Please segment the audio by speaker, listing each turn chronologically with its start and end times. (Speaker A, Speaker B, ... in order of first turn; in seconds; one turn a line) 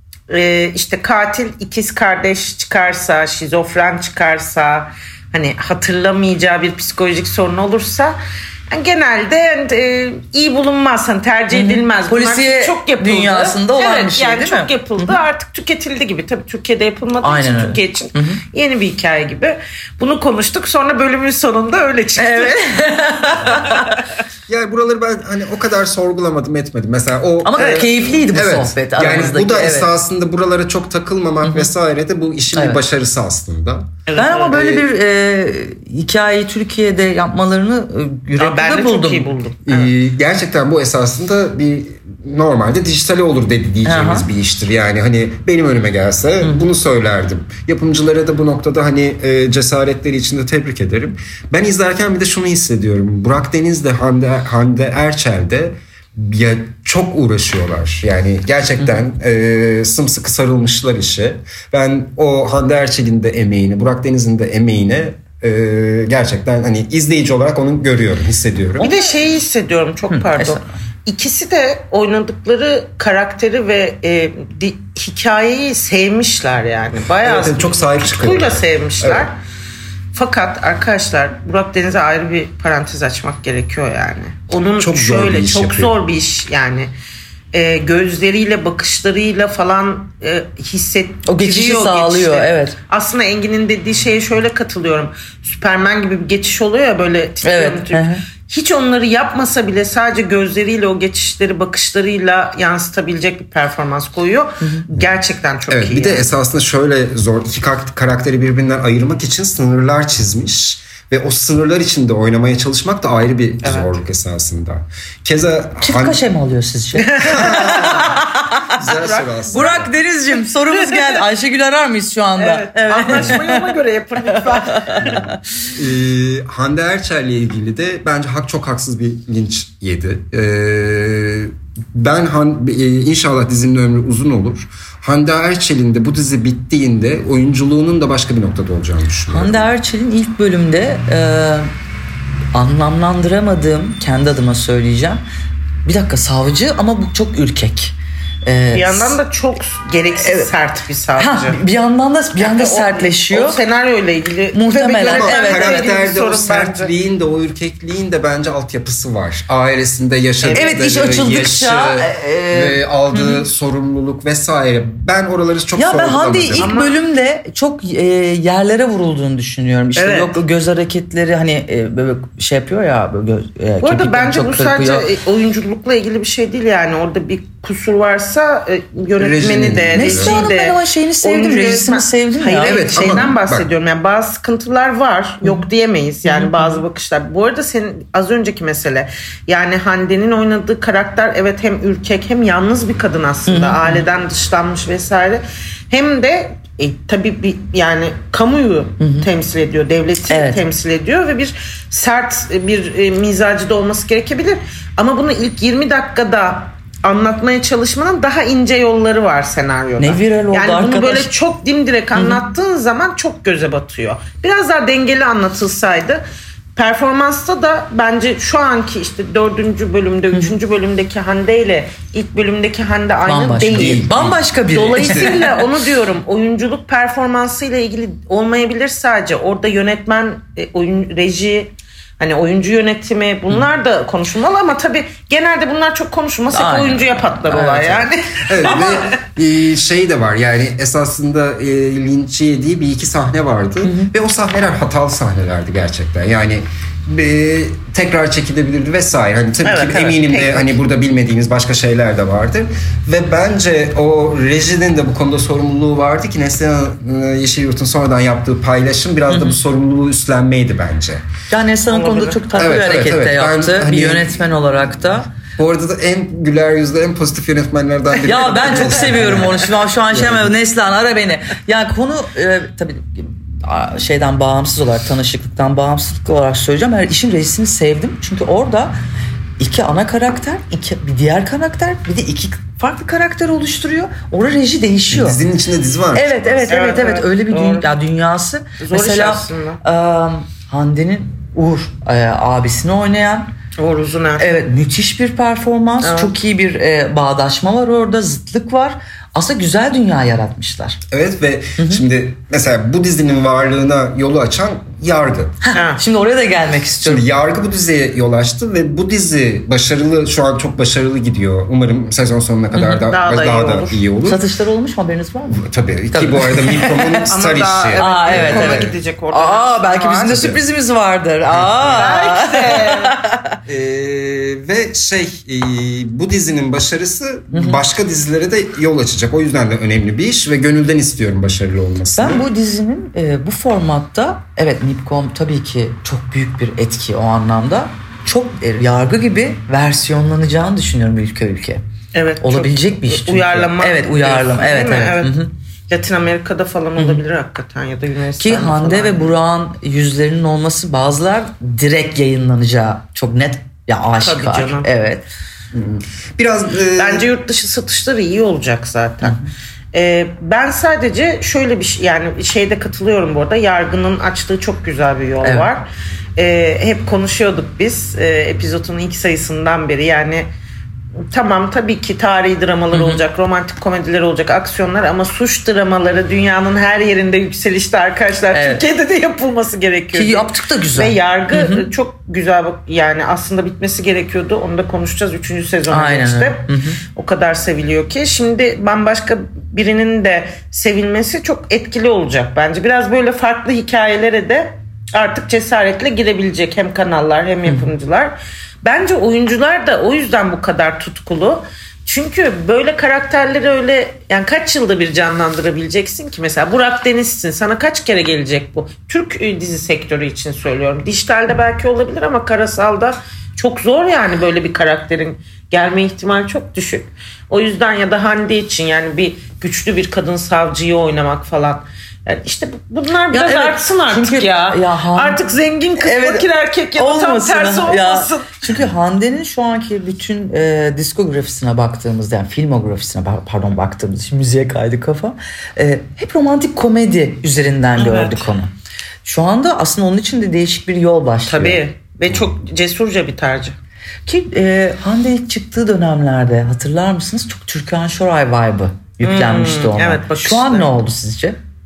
Speaker A: 0.3-8.2
Speaker A: 8.7-22.6
Speaker B: 11.5-15.2
Speaker B: 17.2-18.4
Speaker B: 22.2-23.9
Speaker A: 23.5-24.1
Speaker C: 24.5-34.0
Speaker B: 27.4-29.9
Speaker A: 27.6-28.1
Speaker B: 31.4-31.7
Speaker B: 32.5-32.8
Speaker A: 34.1-34.8
Speaker B: 34.2-39.3
Speaker C: 34.5-34.8
Speaker A: 38.4-39.9
Speaker C: 39.6-68.9
Speaker B: 43.8-44.3
Speaker B: 46.4-46.7
Speaker A: 68.8-79.4
Speaker B: 70.1-70.7
Speaker C: 77.2-79.2
Speaker A: 80.1-86.9
Speaker C: 84.8-85.9
Speaker A: 87.5-106.3
Speaker B: 91.2-92.8
Speaker B: 97.4-98.2
Speaker C: 105.7-116.2
Speaker A: 113.6-114.0
Speaker B: 115.8-118.7
Speaker A: 117.0-118.2
Speaker C: 117.2-118.2
Speaker C: 118.7-119.9
Speaker A: 118.9-119.6
Speaker B: 119.5-123.7
Speaker A: 120.7-121.2
Speaker A: 122.3-125.3
Speaker B: 124.6-125.3
Speaker C: 125.8-139.7
Speaker B: 139.3-141.7
Speaker B: 142.5-145.2
Speaker B: 145.8-149.2
Speaker A: 148.7-151.6
Speaker B: 150.1-150.5
Speaker B: 151.2-153.6
Speaker A: 152.3-156.9
Speaker B: 154.5-155.9
Speaker C: 155.0-166.7
Speaker A: 160.4-160.7
Speaker B: 160.5-163.4
Speaker B: 165.8-175.1
Speaker A: 166.5-167.0
Speaker A: 169.9-170.4
Speaker A: 173.8-216.2
Speaker C: 179.2-180.5
Speaker B: 179.9-183.3
Speaker C: 182.6-183.6
Speaker B: 186.2-186.8
Speaker B: 193.4-194.0
Speaker B: 199.0-199.3
Speaker B: 200.3-200.6
Speaker B: 210.0-211.3
Speaker B: 212.1-212.4
Speaker A: 216.8-224.2
Speaker B: 223.2-225.5
Speaker C: 223.7-225.3
Speaker A: 224.7-239.1
Speaker B: 236.5-238.1
Speaker C: 238.5-261.2
Speaker B: 243.8-244.1
Speaker A: 249.6-250.8
Speaker B: 259.3-259.6
Speaker B: 261.5-265.3
Speaker A: 261.9-262.4
Speaker C: 262.5-264.5
Speaker C: 265.6-270.5
Speaker B: 268.2-278.9
Speaker B: 279.6-285.4
Speaker C: 285.1-286.6
Speaker B: 286.1-293.5
Speaker A: 286.7-287.9
Speaker A: 288.8-289.8
Speaker A: 293.8-294.6
Speaker B: 294.4-301.0
Speaker A: 296.0-296.3
Speaker C: 301.1-305.6
Speaker B: 301.8-302.0
Speaker B: 305.6-307.2
Speaker A: 305.7-306.0
Speaker C: 307.0-314.4
Speaker B: 312.7-313.1
Speaker A: 313.1-314.0
Speaker B: 314.2-317.3
Speaker C: 315.5-318.9
Speaker A: 317.3-320.4
Speaker B: 318.0-323.6
Speaker C: 320.3-320.6
Speaker C: 321.5-322.0
Speaker A: 321.8-323.2
Speaker C: 323.6-332.4
Speaker B: 327.5-327.8
Speaker B: 332.1-341.8
Speaker A: 342.1-345.4
Speaker B: 342.4-345.5
Speaker A: 345.9-349.3
Speaker B: 346.9-347.2
Speaker B: 348.4-355.2
Speaker A: 354.2-354.9
Speaker C: 355.7-357.3
Speaker A: 357.0-359.4
Speaker A: 359.9-370.5
Speaker B: 365.4-365.7
Speaker A: 371.3-428.6
Speaker B: 372.9-373.2
Speaker B: 378.5-378.8
Speaker B: 380.1-381.9
Speaker B: 385.9-387.0
Speaker B: 423.3-425.4
Speaker B: 426.0-438.7
Speaker A: 438.0-438.5
Speaker B: 439.2-441.8
Speaker A: 441.5-443.8
Speaker B: 444.2-451.6
Speaker A: 449.2-450.9